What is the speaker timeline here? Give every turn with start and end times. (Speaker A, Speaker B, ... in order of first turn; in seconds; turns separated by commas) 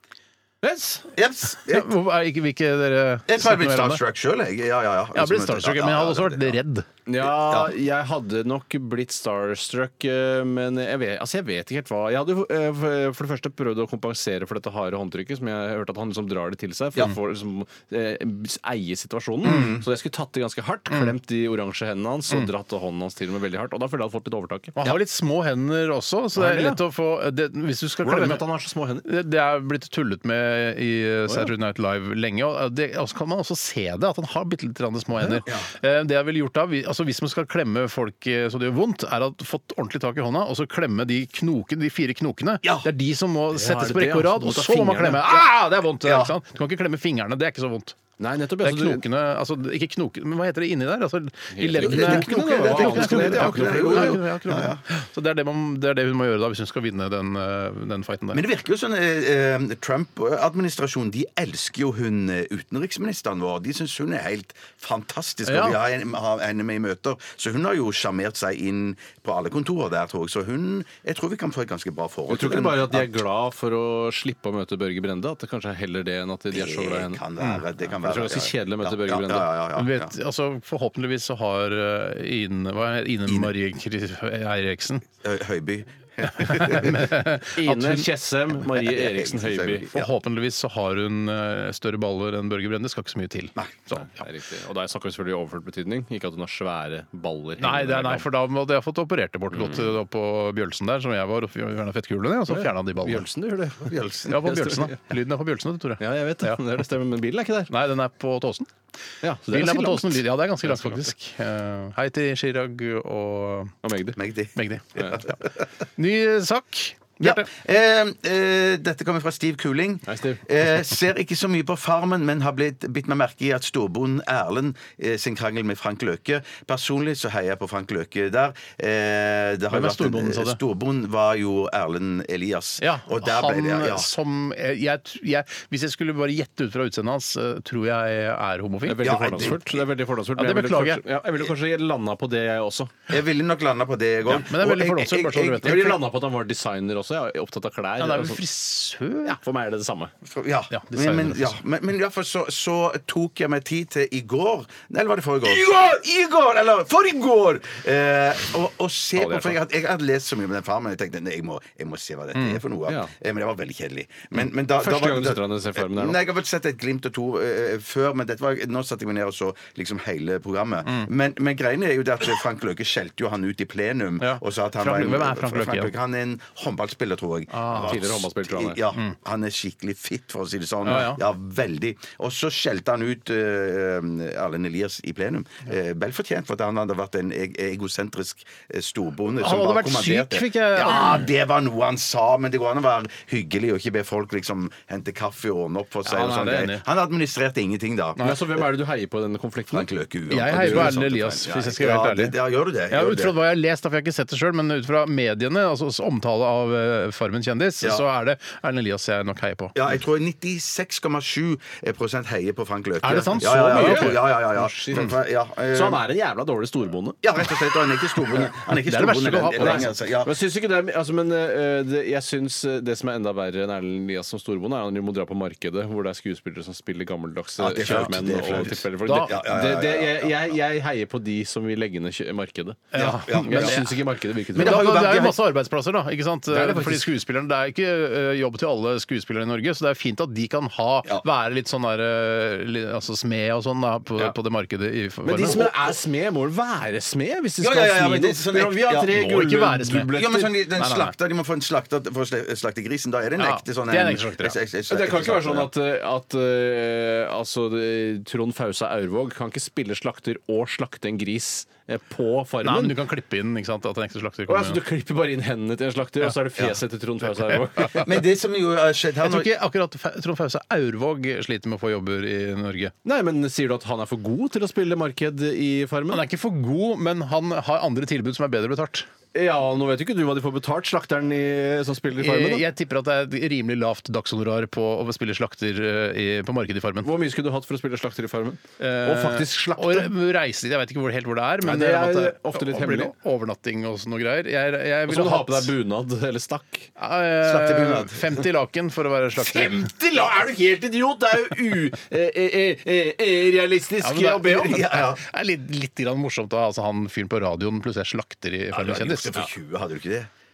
Speaker A: 0.6-1.0, Speaker B: 1.1-1.9, Speaker C: 1.6-4.0, Speaker B: 3.3-6.6, Speaker C: 5.1-6.9, Speaker A: 7.1-24.9, Speaker B: 7.2-7.7, Speaker B: 19.4-19.8, Speaker C: 19.5-19.7, Speaker C: 24.8-28.4, Speaker A: 26.4-26.8, Speaker A: 28.0-29.1, Speaker C: 29.0-48.0, Speaker B: 42.6-42.9, Speaker A: 43.5-45.4, Speaker B: 46.0-46.3, Speaker A: 48.2-49.0, Speaker C: 48.6-58.4, Speaker A: 51.5-54.2, Speaker B: 51.8-54.8, Speaker B: 58.3-73.2, Speaker C: 65.5-65.8, Speaker A: 72.3-77.2, Speaker B: 76.5-80.1, Speaker A: 78.0-79.5, Speaker C: 79.8-85.0, Speaker B: 85.2-87.1, Speaker C: 86.3-88.0, Speaker A: 87.6-89.9, Speaker B: 88.7-90.1, Speaker C: 89.9-94.2, Speaker B: 93.5-93.9, Speaker A: 93.9-98.2, Speaker C: 97.6-103.2, Speaker A: 99.6-99.9, Speaker A: 102.5-105.0, Speaker B: 103.8-104.4, Speaker C: 104.3-106.6, Speaker A: 106.0-107.7, Speaker C: 107.7-108.7, Speaker A: 109.2-111.1, Speaker C: 109.5-113.8, Speaker A: 113.8-114.2, Speaker B: 114.2-115.2, Speaker C: 114.5-115.4, Speaker C: 116.0-117.5, Speaker B: 117.2-134.1, Speaker A: 120.1-120.4, Speaker C: 129.7-130.6, Speaker C: 132.8-139.5, Speaker A: 138.8-143.0, Speaker B: 139.0-139.8, Speaker C: 140.3-141.0, Speaker B: 143.1-146.0, Speaker C: 144.3-145.9, Speaker A: 145.6-148.4, Speaker C: 148.0-149.4, Speaker A: 149.2-150.1, Speaker B: 150.2-198.3, Speaker C: 150.7-151.6, Speaker A: 159.2-159.6, Speaker C: 162.3-162.6, Speaker A: 164.8-166.2, Speaker C: 174.2-175.9, Speaker C: 177.5-178.0, Speaker A: 177.8-178.8, Speaker C: 180.8-181.2, Speaker C: 189.4-191.3, Speaker C: 196.0-196.8, Speaker A: 198.2-199.9, Speaker B: 199.7-203.3, Speaker C: 200.3-202.3, Speaker A: 200.5-200.9, Speaker C: 202.9-209.7, Speaker B: 209.7-216.0, Speaker C: 213.0-214.2, Speaker A: 213.1-215.1, Speaker A: 215.7-217.2, Speaker B: 217.2-220.3, Speaker C: 218.7-219.9, Speaker A: 219.5-234.9, Speaker B: 227.6-230.3, Speaker C: 227.9-229.3, Speaker C: 232.9-234.0, Speaker B: 232.9-233.8, Speaker B: 234.5-235.4, Speaker C: 234.6-245.7, Speaker A: 236.5-237.1, Speaker A: 245.2-250.4, Speaker B: 247.6-249.2, Speaker C: 249.1-251.1, Speaker B: 250.1-255.7, Speaker C: 253.4-254.6, Speaker A: 254.9-263.0, Speaker C: 262.6-264.8, Speaker A: 264.5-268.1, Speaker B: 267.9-269.5, Speaker C: 269.2-272.9, Speaker A: 273.0-276.2, Speaker C: 276.1-279.1, Speaker A: 279.3-282.6, Speaker C: 282.2-287.1, Speaker A: 287.0-290.1, Speaker C: 288.8-295.7, Speaker A: 291.6-293.1, Speaker A: 295.1-296.9, Speaker C: 297.0-299.9, Speaker B: 297.4-298.4, Speaker A: 299.4-304.8, Speaker C: 304.0-309.3, Speaker B: 304.5-305.2, Speaker B: 308.7-310.3